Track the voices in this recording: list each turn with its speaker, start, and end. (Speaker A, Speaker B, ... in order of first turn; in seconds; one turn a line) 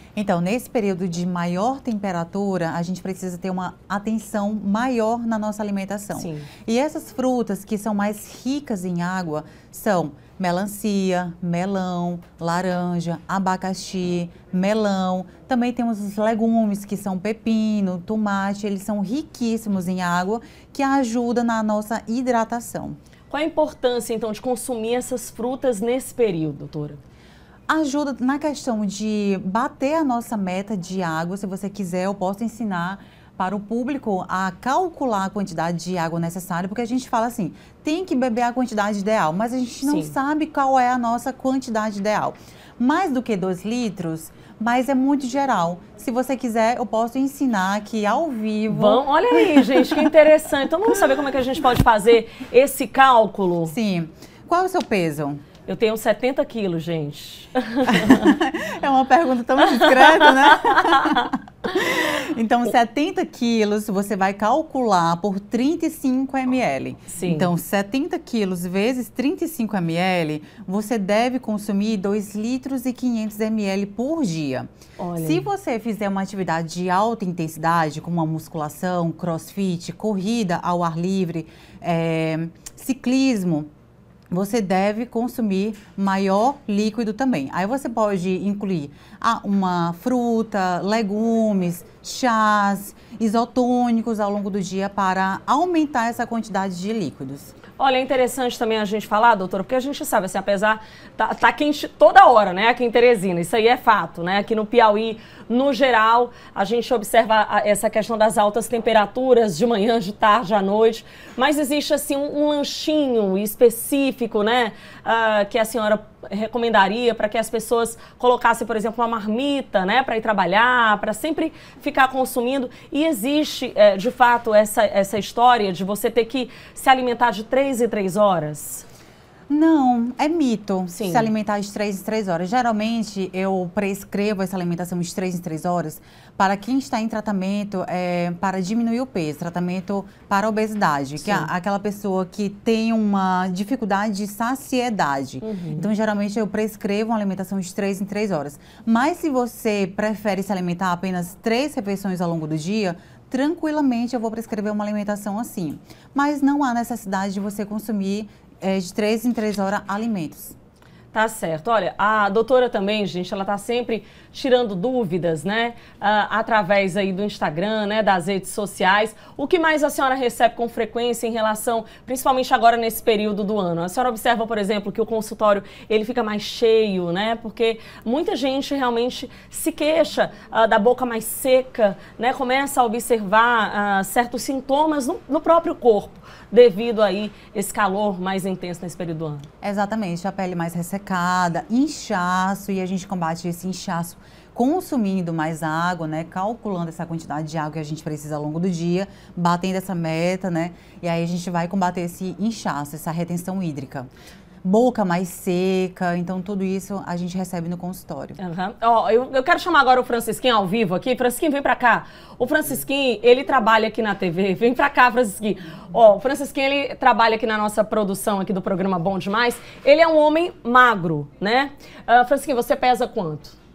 Speaker A: 0.2-23.0
Speaker B: 6.1-6.5
Speaker B: 23.3-27.0
Speaker A: 27.7-50.1
Speaker B: 39.8-40.1
Speaker B: 48.7-53.8
Speaker A: 53.7-55.4
Speaker B: 55.7-58.4
Speaker A: 57.9-83.7
Speaker B: 59.8-61.2
Speaker B: 67.1-67.5
Speaker B: 75.0-75.5
Speaker A: 84.3-97.5
Speaker B: 97.8-128.8
Speaker A: 129.5-160.6
Speaker B: 130.9-131.3
Speaker B: 141.2-141.5
Speaker B: 145.4-145.9
Speaker B: 161.1-189.5
Speaker A: 189.6-204.1
Speaker A: 204.6-208.4
Speaker B: 208.4-223.6